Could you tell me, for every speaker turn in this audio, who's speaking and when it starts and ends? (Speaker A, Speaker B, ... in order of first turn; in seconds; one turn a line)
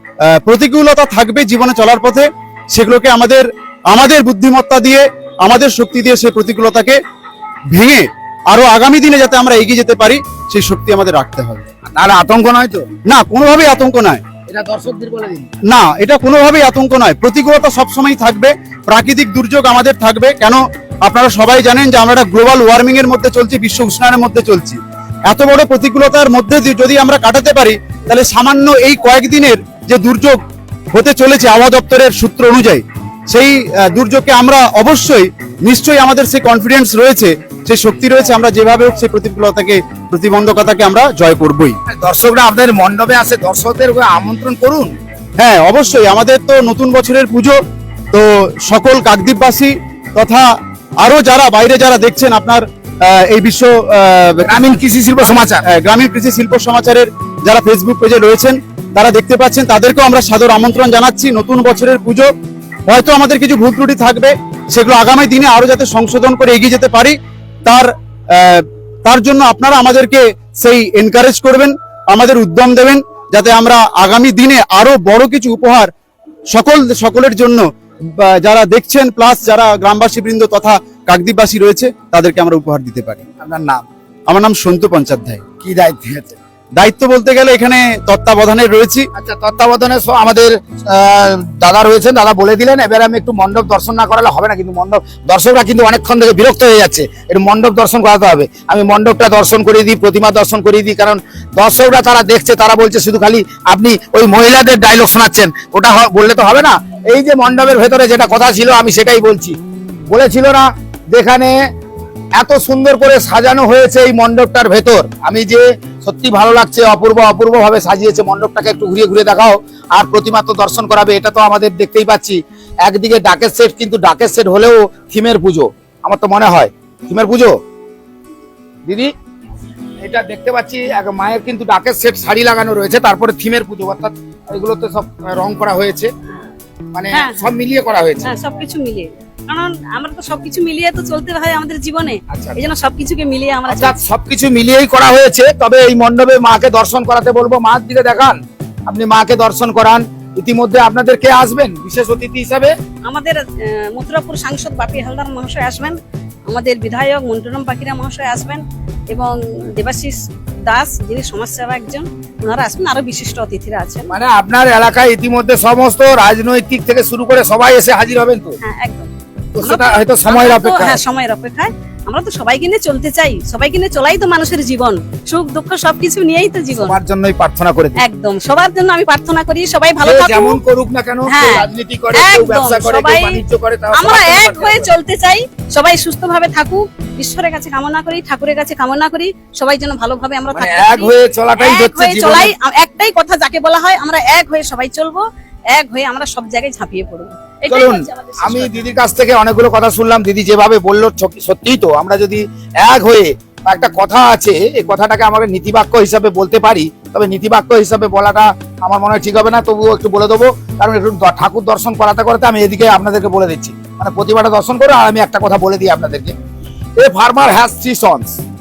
Speaker A: 0.3-7.0
Speaker A: 7.7-11.7
Speaker B: 11.9-12.9
Speaker A: 13.1-14.2
Speaker B: 14.5-15.5
Speaker A: 15.7-30.4
Speaker A: 30.9-41.8
Speaker B: 41.9-44.9
Speaker A: 45.4-47.6
Speaker A: 48.1-54.8
Speaker B: 54.5-55.6
Speaker A: 55.6-62.3
Speaker A: 62.9-75.9
Speaker A: 76.5-83.2
Speaker B: 83.4-83.8
Speaker A: 84.3-85.4
Speaker B: 85.6-86.4
Speaker A: 86.8-89.1
Speaker B: 89.2-109.6
Speaker B: 110.1-111.6
Speaker B: 112.4-127.6
Speaker B: 128.9-129.1
Speaker B: 130.0-136.1
Speaker B: 136.9-138.3
Speaker C: 137.1-137.4
Speaker C: 138.2-143.9
Speaker B: 142.3-142.6
Speaker B: 143.7-152.8
Speaker C: 153.1-164.1
Speaker B: 164.1-168.6
Speaker C: 168.6-169.1
Speaker B: 169.6-171.0
Speaker C: 169.6-176.9
Speaker B: 176.8-178.0
Speaker C: 178.0-180.6
Speaker B: 180.0-184.9
Speaker C: 181.3-183.4
Speaker C: 183.9-198.9
Speaker B: 190.5-192.5
Speaker B: 197.7-216.3
Speaker B: 217.0-218.4